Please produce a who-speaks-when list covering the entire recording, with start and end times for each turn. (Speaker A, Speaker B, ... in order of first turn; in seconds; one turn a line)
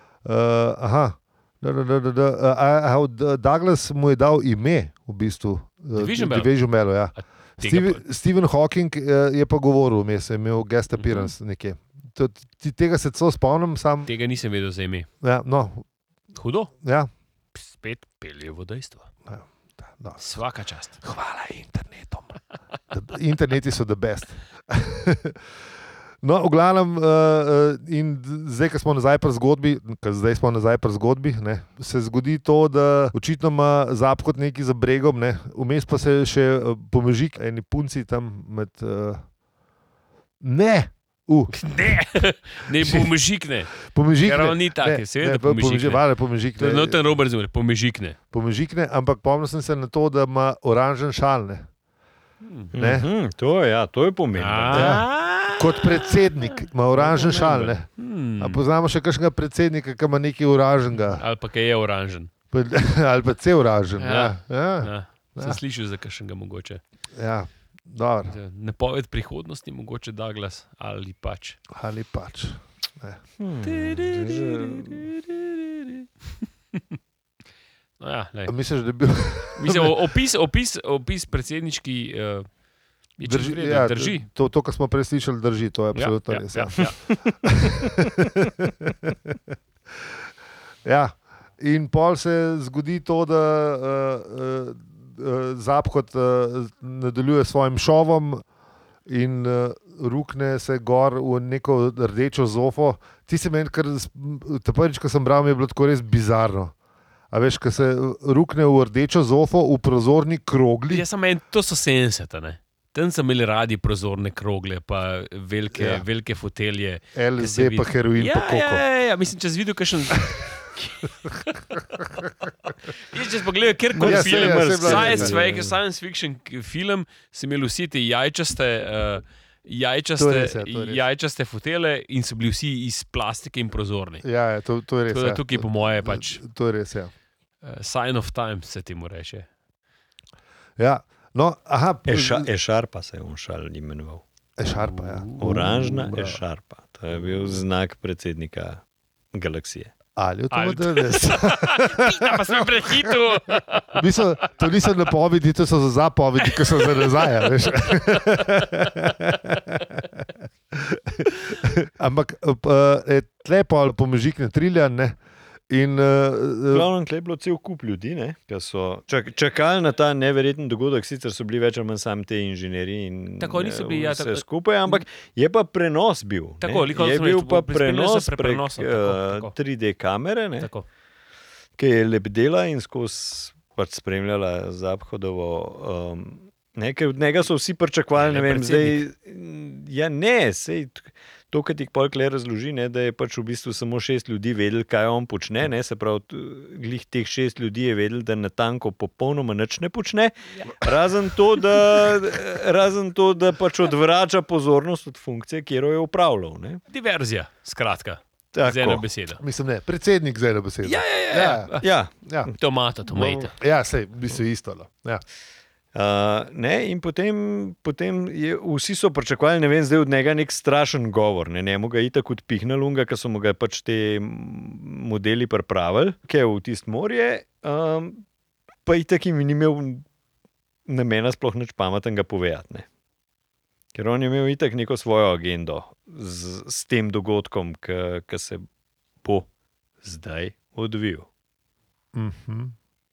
Speaker A: 0.2-14.1
Speaker B: 6.0-6.5
Speaker B: 7.6-8.0
Speaker B: 10.9-11.3
Speaker B: 14.1-15.1
Speaker A: 15.2-15.8
Speaker B: 16.3-16.7
Speaker A: 16.8-17.1
Speaker B: 17.6-19.1
Speaker A: 19.3-20.2
Speaker B: 20.2-21.0
Speaker A: 21.0-22.4
Speaker A: 22.9-25.4
Speaker A: 26.2-39.2
Speaker A: 40.4-42.0
Speaker B: 41.5-46.0
Speaker A: 42.7-43.1
Speaker A: 43.8-47.1
Speaker B: 46.6-48.2
Speaker A: 48.3-51.7
Speaker B: 52.4-52.7
Speaker C: 52.7-55.1
Speaker A: 52.7-53.1
Speaker B: 54.4-58.6
Speaker A: 54.7-61.2
Speaker C: 57.3-57.7
Speaker B: 61.1-62.3
Speaker A: 62.5-65.6
Speaker B: 64.0-66.8
Speaker A: 67.2-68.3
Speaker B: 68.3-71.6
Speaker A: 71.7-73.2
Speaker C: 73.4-75.1
Speaker B: 73.6-76.0
Speaker B: 78.0-78.5
Speaker A: 78.5-80.0
Speaker B: 79.5-82.5
Speaker B: 83.2-84.3
Speaker A: 83.2-89.4
Speaker B: 85.9-87.0
Speaker A: 90.8-98.4
Speaker A: 99.1-106.7
Speaker A: 107.3-111.0
Speaker B: 110.9-121.7
Speaker A: 115.7-116.0
Speaker A: 117.1-118.8
Speaker B: 123.0-134.2
Speaker C: 123.9-125.8
Speaker A: 124.0-125.4
Speaker A: 130.2-131.0
Speaker A: 134.2-137.1
Speaker B: 135.1-136.4
Speaker B: 137.6-139.5
Speaker A: 140.8-142.5
Speaker C: 142.1-144.2
Speaker A: 144.6-146.4
Speaker B: 144.9-146.1
Speaker C: 145.4-149.9
Speaker A: 150.2-153.2
Speaker B: 150.5-154.5
Speaker A: 153.9-165.2
Speaker A: 165.7-166.9
Speaker C: 166.7-180.7
Speaker B: 173.4-175.0
Speaker B: 176.6-179.6
Speaker B: 180.6-180.9
Speaker C: 181.8-206.8
Speaker B: 188.2-189.1
Speaker B: 206.9-209.4
Speaker C: 208.5-209.1
Speaker A: 209.4-212.5
Speaker B: 210.8-211.9
Speaker C: 211.8-212.5
Speaker B: 212.5-213.5
Speaker A: 213.1-215.2
Speaker C: 215.9-228.2
Speaker C: 228.9-230.1
Speaker C: 230.9-232.9
Speaker C: 233.9-238.7
Speaker C: 240.0-241.3
Speaker A: 242.1-242.8